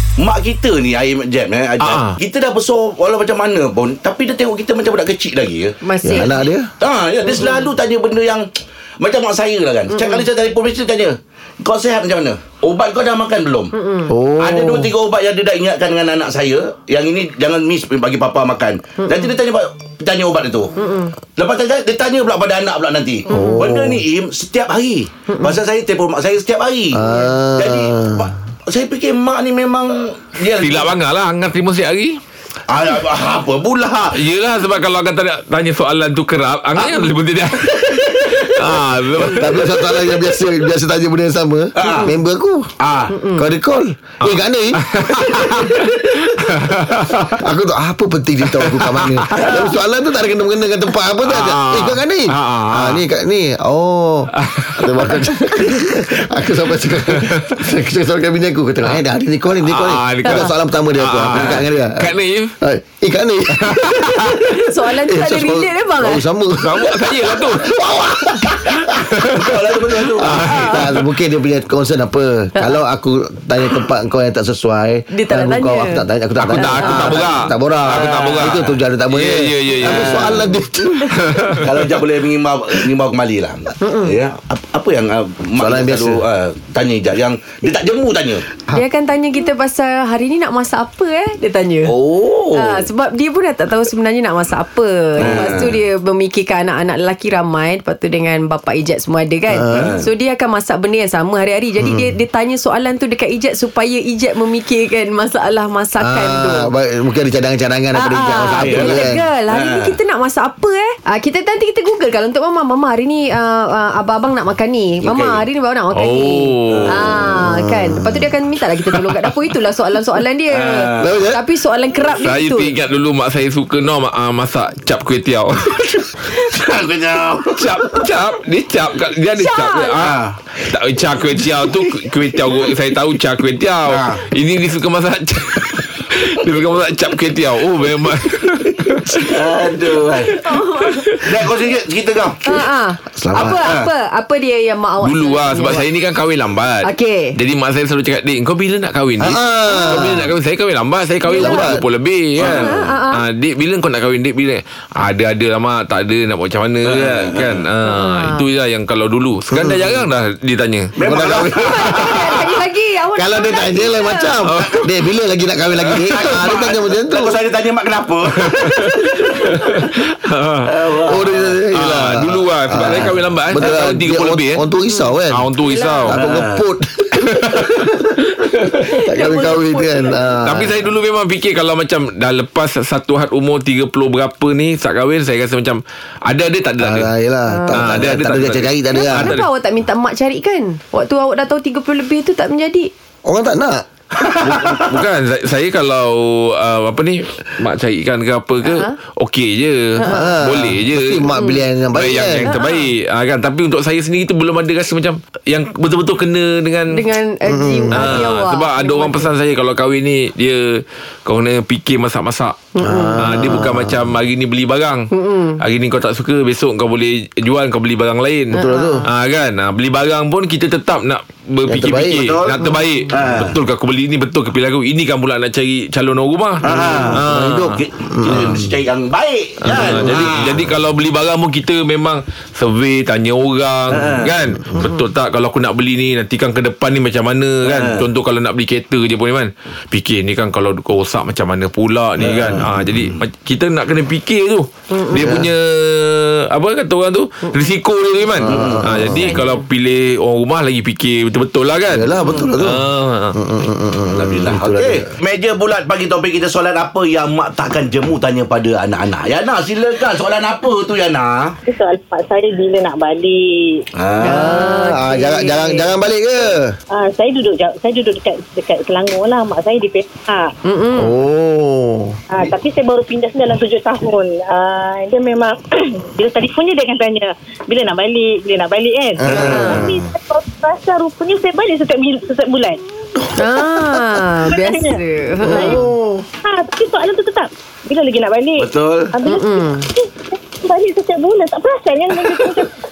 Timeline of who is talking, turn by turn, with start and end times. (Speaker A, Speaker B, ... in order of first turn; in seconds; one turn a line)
Speaker A: 0.2-8.5
Speaker B: 1.8-2.2
Speaker C: 5.8-6.3
Speaker D: 6.0-6.7
Speaker C: 7.4-7.7
Speaker A: 9.0-13.7
Speaker C: 9.9-10.2
Speaker C: 13.7-14.1
Speaker D: 14.1-14.9
Speaker A: 14.4-20.7
Speaker C: 19.0-19.3
Speaker C: 20.8-21.1
Speaker A: 21.3-27.0
Speaker D: 23.3-24.0
Speaker C: 23.3-23.7
Speaker C: 25.3-25.6
Speaker D: 26.9-28.3
Speaker A: 27.6-30.9
Speaker B: 30.6-32.2
Speaker A: 32.7-34.2
Speaker B: 34.1-39.8
Speaker A: 36.8-38.5
Speaker D: 39.2-42.7
Speaker A: 41.8-42.1
Speaker C: 41.8-42.1
Speaker A: 42.8-43.1
Speaker C: 43.1-43.5
Speaker D: 43.3-44.9
Speaker B: 44.2-47.4
Speaker D: 47.4-69.0
Speaker B: 48.5-49.5
Speaker B: 51.2-53.0
Speaker B: 54.4-55.6
Speaker B: 57.1-57.6
Speaker B: 59.6-62.5
Speaker B: 63.6-64.4
Speaker C: 64.5-66.2
Speaker B: 66.6-67.7
Speaker B: 68.8-69.5
Speaker A: 69.3-70.5
Speaker D: 70.1-81.2
Speaker B: 70.2-71.0
Speaker C: 75.1-76.0
Speaker B: 76.4-80.4
Speaker C: 76.6-77.4
Speaker A: 77.9-78.8
Speaker A: 79.8-80.4
Speaker B: 81.1-81.7
Speaker A: 81.6-88.5
Speaker C: 83.8-84.1
Speaker D: 85.6-86.2
Speaker C: 88.7-91.9
Speaker A: 91.8-92.9
Speaker C: 92.5-106.7
Speaker A: 95.2-95.8
Speaker D: 99.5-100.0
Speaker A: 99.7-100.1
Speaker D: 101.8-102.1
Speaker D: 106.0-109.2
Speaker C: 107.9-122.7
Speaker A: 108.4-110.0
Speaker A: 115.0-115.4
Speaker B: 115.9-117.0
Speaker A: 116.7-117.0
Speaker D: 117.2-118.3
Speaker A: 120.5-121.2
Speaker D: 121.0-121.4
Speaker B: 122.1-126.1
Speaker A: 126.5-128.0
Speaker B: 127.5-139.3
Speaker C: 129.3-129.9
Speaker A: 130.0-130.4
Speaker A: 133.9-134.2
Speaker A: 139.2-140.3
Speaker C: 140.2-141.2
Speaker A: 141.2-142.7
Speaker C: 142.4-145.8
Speaker A: 143.2-143.9
Speaker D: 143.2-143.6
Speaker B: 145.0-160.9
Speaker C: 146.8-147.3
Speaker D: 149.2-150.3
Speaker C: 149.7-150.1
Speaker C: 151.2-151.7
Speaker D: 151.3-151.8
Speaker A: 152.4-152.8
Speaker C: 152.5-153.2
Speaker A: 156.8-157.6
Speaker C: 157.8-158.4
Speaker D: 159.5-159.9
Speaker A: 160.9-162.5
Speaker D: 161.0-162.1
Speaker C: 161.5-164.3
Speaker D: 163.1-167.4
Speaker B: 164.5-164.9
Speaker B: 165.9-166.1
Speaker A: 165.9-169.4
Speaker B: 168.4-170.7
Speaker A: 170.7-171.6
Speaker D: 171.1-175.5
Speaker B: 171.7-174.6
Speaker B: 175.3-176.2
Speaker C: 175.7-176.1
Speaker D: 176.1-180.8
Speaker A: 176.1-176.6
Speaker B: 177.3-177.6
Speaker C: 178.8-180.2
Speaker B: 180.4-187.1
Speaker D: 186.8-189.3
Speaker C: 187.5-187.8
Speaker B: 187.7-189.5
Speaker C: 188.9-192.9
Speaker D: 193.2-193.8
Speaker A: 194.2-194.9
Speaker B: 194.8-201.3
Speaker C: 198.6-198.9
Speaker C: 200.0-200.3
Speaker D: 200.0-202.5
Speaker C: 201.3-201.6
Speaker B: 201.9-207.0
Speaker C: 202.4-202.9
Speaker C: 206.9-209.3
Speaker D: 207.5-208.3
Speaker B: 207.9-212.6
Speaker C: 212.8-213.2
Speaker D: 212.8-214.0
Speaker B: 213.2-227.8
Speaker C: 215.1-215.6
Speaker D: 218.5-219.0
Speaker C: 218.6-219.1
Speaker D: 221.7-222.3
Speaker A: 222.1-223.6
Speaker A: 226.6-230.6
Speaker D: 226.7-228.7
Speaker B: 229.6-253.4
Speaker A: 233.9-234.3
Speaker A: 237.6-238.0
Speaker A: 242.2-243.1
Speaker C: 244.9-245.2
Speaker D: 245.1-245.5
Speaker C: 247.4-247.8
Speaker D: 248.4-249.4
Speaker A: 248.4-248.9
Speaker C: 249.3-249.6
Speaker D: 251.9-255.1
Speaker A: 254.1-261.6
Speaker E: 261.6-263.8
Speaker A: 263.9-264.5
Speaker C: 264.2-265.9
Speaker D: 264.2-266.8
Speaker E: 266.9-270.5
Speaker C: 270.6-271.1
Speaker D: 271.0-272.2
Speaker E: 272.3-282.8
Speaker D: 279.2-280.1
Speaker A: 279.2-279.9
Speaker C: 279.5-279.8
Speaker C: 283.4-285.8
Speaker E: 284.4-285.8
Speaker D: 285.4-286.2
Speaker E: 286.4-292.7
Speaker A: 288.6-289.1
Speaker C: 289.2-289.9